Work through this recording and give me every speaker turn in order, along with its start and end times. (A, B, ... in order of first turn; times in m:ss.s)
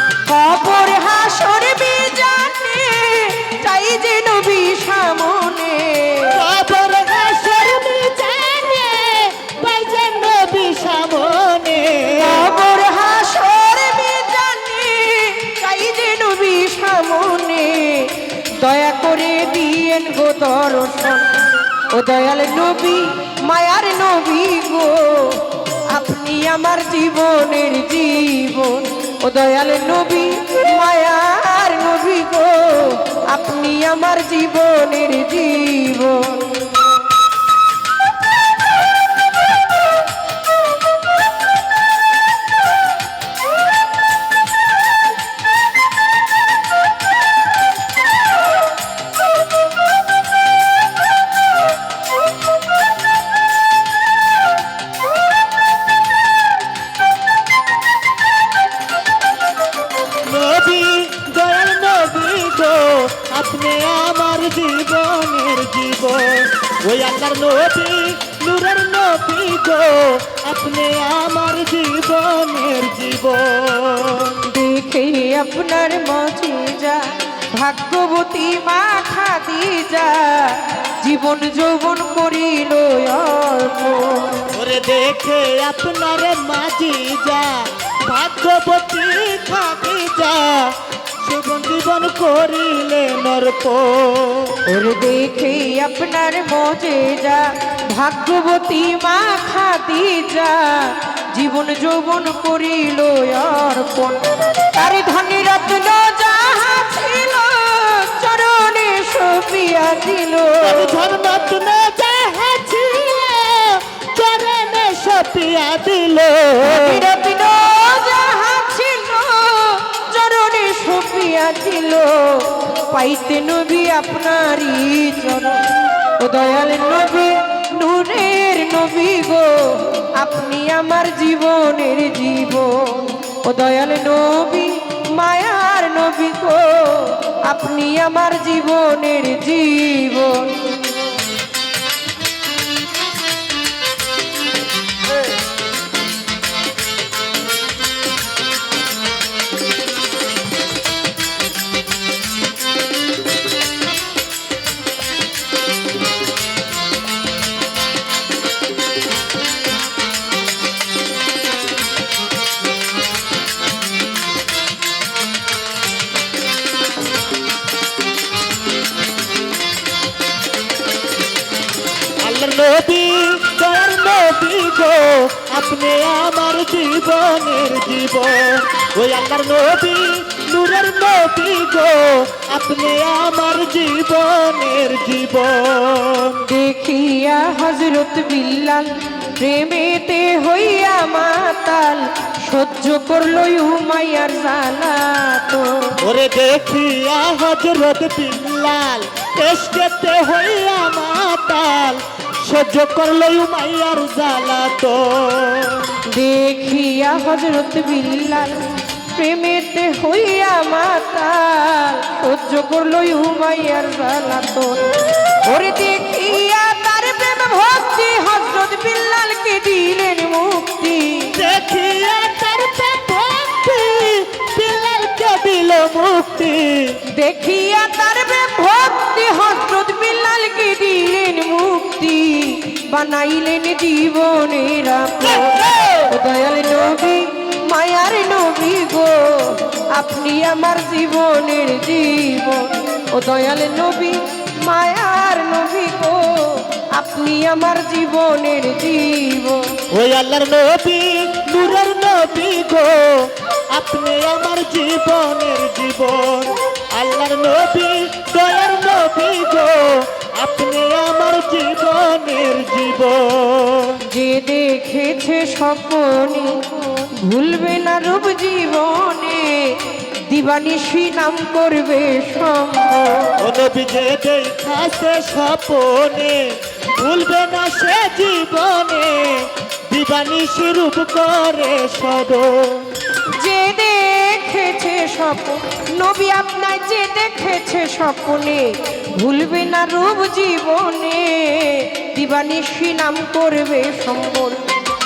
0:00.2-0:06.4 A
0:06.3-0:12.4 B
0:12.1-0:21.3 A
0:21.9-0:37.0 A
1:00.2-1:14.4 B
1:14.4-1:24.5 A
1:24.5-1:34.6 B
1:34.6-1:51.0 A
1:50.6-1:57.1 B
1:56.7-2:21.0 A
2:52.2-3:06.4 B
3:06.4-3:16.0 A
3:16.0-3:26.0 B
3:26.1-3:34.8 A
3:35.4-3:41.4 A
3:41.3-3:47.0 B
3:47.1-4:09.8 A
3:55.2-3:56.1 B
4:09.9-4:24.0 B
4:24.0-4:33.4 A
4:33.4-4:42.9 B
4:43.2-4:54.7 A